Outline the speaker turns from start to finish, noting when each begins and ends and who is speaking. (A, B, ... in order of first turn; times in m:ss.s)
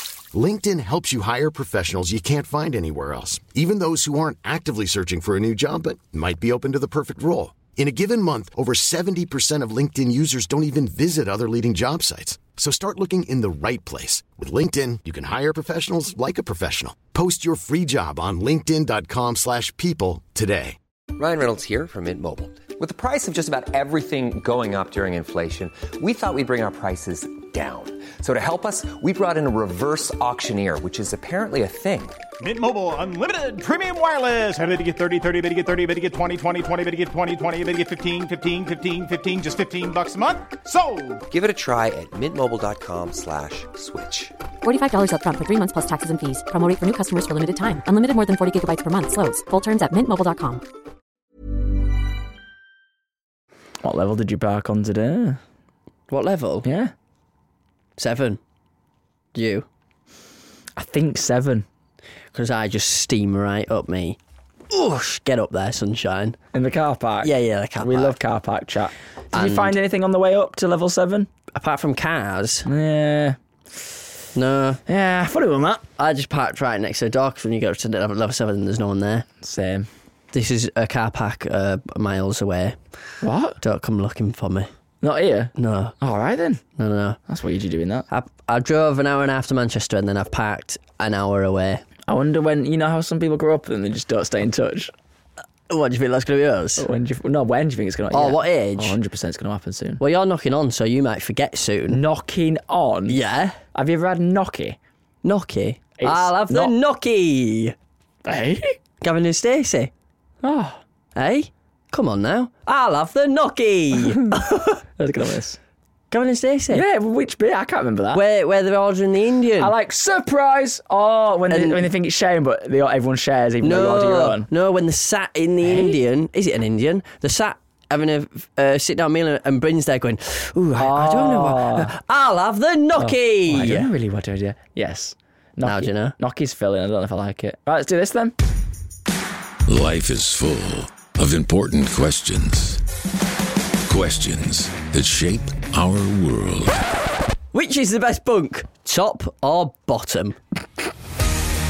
0:00.3-0:20.8 A
0:21.2-0:32.2 B
0:32.4-0:41.2 C
0:41.3-0:44.4 B
0:44.6-0:50.6 D
0:53.8-0:55.4 E
0:56.1-0:56.7 F
0:56.6-0:56.9 E
0:58.0-0:58.4 F
0:59.3-0:59.7 F
1:00.8-1:01.7 E
1:02.3-1:04.2 F
1:04.7-1:06.4 F
1:06.5-1:11.3 E
1:07.2-1:08.2 F
1:09.3-1:09.7 F
1:11.6-1:12.7 F
1:12.7-1:13.4 E
1:14.4-1:14.8 F
1:14.9-1:15.8 E
1:16.0-1:19.2 F
1:19.4-1:19.9 E
1:20.3-1:22.8 F
1:23.2-1:23.6 E
1:23.6-1:24.7 F
1:25.0-1:26.6 E
1:25.6-1:26.0 F
1:26.8-1:27.2 F
1:27.3-1:28.1 E
1:28.1-1:31.8 F
1:32.1-1:34.9 E
1:35.7-1:36.8 F
1:36.8-1:40.0 E
1:38.1-1:39.0 F
1:40.0-1:42.0 F
1:41.9-1:43.2 E
1:43.1-1:43.6 F
1:43.7-1:44.8 E
1:45.2-1:47.8 F
1:46.0-1:46.7 E
1:48.2-1:48.8 E
1:49.0-1:49.9 F
1:50.4-1:50.8 E
1:51.2-1:54.8 F
1:54.1-1:54.4 E
1:55.0-1:55.6 E
1:56.1-1:56.8 F
1:56.7-1:58.2 E
1:58.1-1:59.7 F
1:59.6-2:04.5 E
2:01.5-2:01.9 F
2:03.6-2:13.9 F
2:05.6-2:06.0 E
2:10.8-2:11.9 E
2:13.0-2:18.4 E
2:15.6-2:16.2 F
2:19.7-2:22.8 G
2:23.9-2:26.8 G
2:27.5-2:30.4 F